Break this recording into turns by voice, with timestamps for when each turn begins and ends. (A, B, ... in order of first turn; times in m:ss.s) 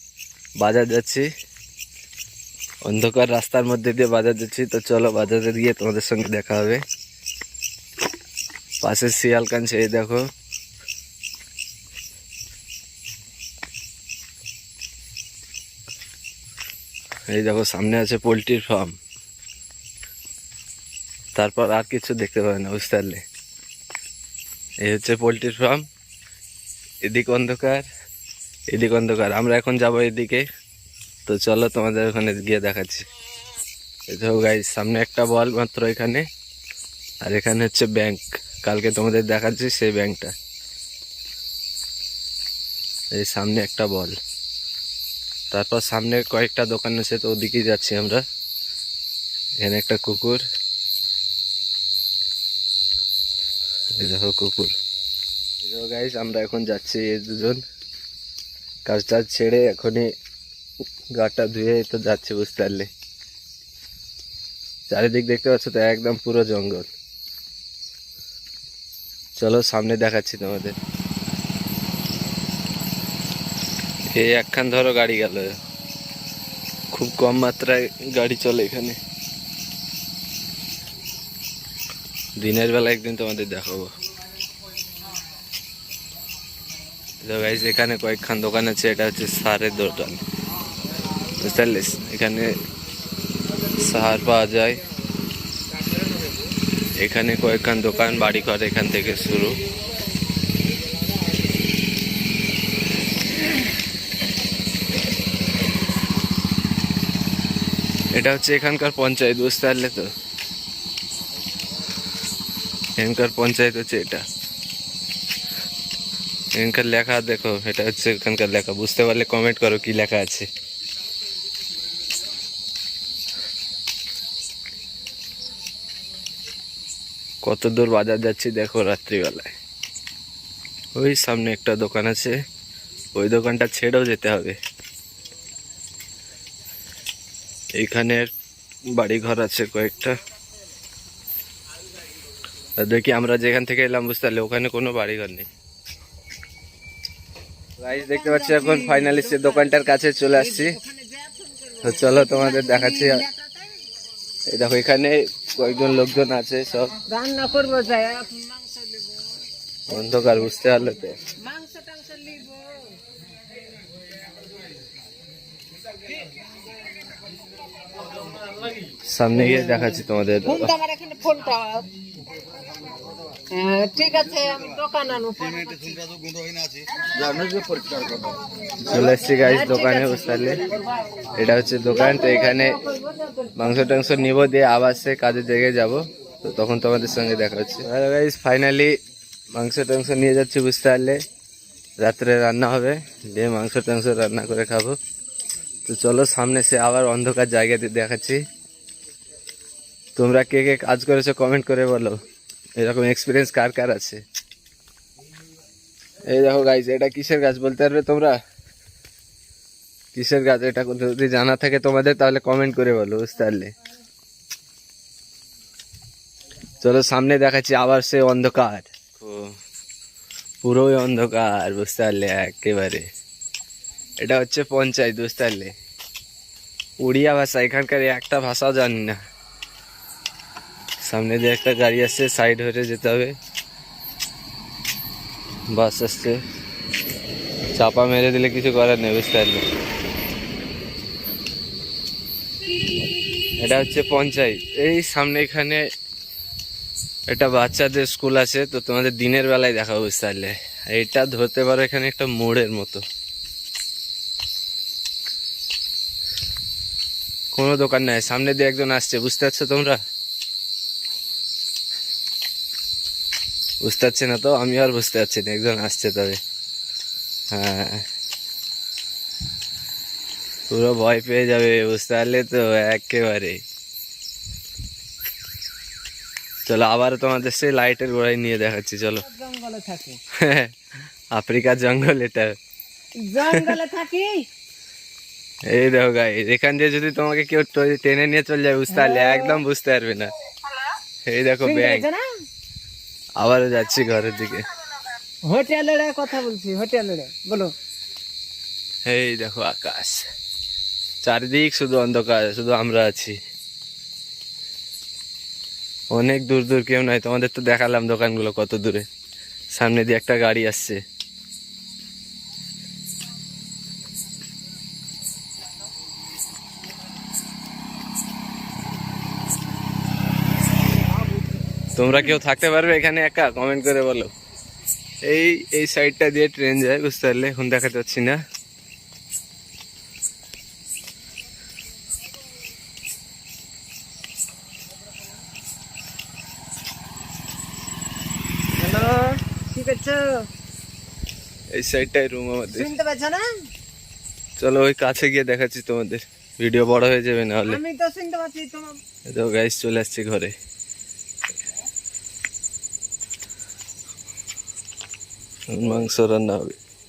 0:00.6-0:01.3 A
0:02.8-0:06.8 A
0:08.8-0:10.2 A
0:17.3-0:19.0 A
0:21.4-0:23.2 A
0:24.8-0:25.8 A
0:27.0-0:27.8 A
0:28.7-0:30.4 A
0:31.3-0:33.0 A
0:34.1-0:36.2 A
0:37.2-0:40.3 A
0:43.1-0:44.2 A
0:45.5-0:48.2 A
0:49.6-0:50.4 A
0:54.0-0:54.7 A
0:55.6-0:57.6 A
0:58.8-1:00.1 A
1:01.1-1:02.9 A
1:04.9-1:06.9 A
1:09.4-1:10.8 A
1:14.1-1:15.6 A
1:16.9-1:19.0 A
1:22.4-1:23.9 A
1:27.2-1:30.2 A
1:31.4-1:32.5 A
1:33.8-1:34.8 A
1:37.0-1:39.6 A
1:48.1-1:50.1 A
1:53.0-1:54.2 A
1:56.5-2:00.5 A
2:07.4-2:09.5 A
2:11.0-2:12.3 A
2:13.1-2:14.6 A
2:17.8-2:18.3 A
2:18.9-2:20.1 A
2:22.8-2:25.5 A
2:27.8-2:30.8 A
2:27.9-2:29.7 B
2:30.3-2:33.8 B
2:31.8-2:33.2 A
2:34.5-2:37.0 A
2:37.0-2:39.5 B
2:39.9-2:41.2 A
2:41.4-2:43.0 B
2:49.1-2:50.7 A
2:49.4-2:49.9 B
2:50.4-2:51.9 B
2:53.5-2:56.2 B
2:58.8-3:00.6 A
2:59.4-3:00.7 B
3:01.4-3:02.8 A
3:01.9-3:03.8 B
3:03.6-3:08.9 A
3:09.5-3:11.2 A
3:12.0-3:15.0 A
3:15.8-3:18.4 A
3:20.2-3:22.2 A
3:22.8-3:24.2 A
3:26.3-3:28.4 A
3:30.1-3:33.7 A
3:36.8-3:39.6 A
3:40.6-3:43.1 A
3:44.2-3:45.7 A
3:47.0-3:49.2 A
3:51.0-3:53.4 A
3:55.7-3:56.4 A
3:57.7-3:59.6 A
4:03.6-4:05.8 A
4:07.3-4:13.0 A
4:17.5-4:20.0 A
4:23.8-4:26.4 A
4:27.5-4:28.0 A
4:30.7-4:33.6 A
4:36.6-4:39.2 A
4:39.2-4:40.2 B
4:40.4-4:40.7 A
4:41.3-4:42.5 A
4:43.2-4:44.5 B
4:45.7-4:50.3 A
4:48.9-4:49.6 B
4:51.2-4:52.0 A
4:51.6-4:52.3 B
4:53.4-4:54.7 A
4:55.5-4:57.7 B
4:59.0-5:00.2 A
5:01.2-5:03.4 A
5:06.1-5:09.0 A
5:09.7-5:11.0 A
5:22.0-5:24.3 A
5:25.2-5:28.4 A
5:38.8-5:40.4 B
5:41.7-5:42.9 A
5:42.7-5:43.5 B
5:44.6-5:47.8 A
5:47.7-5:49.0 B
5:49.3-5:50.5 A
5:55.7-5:56.8 A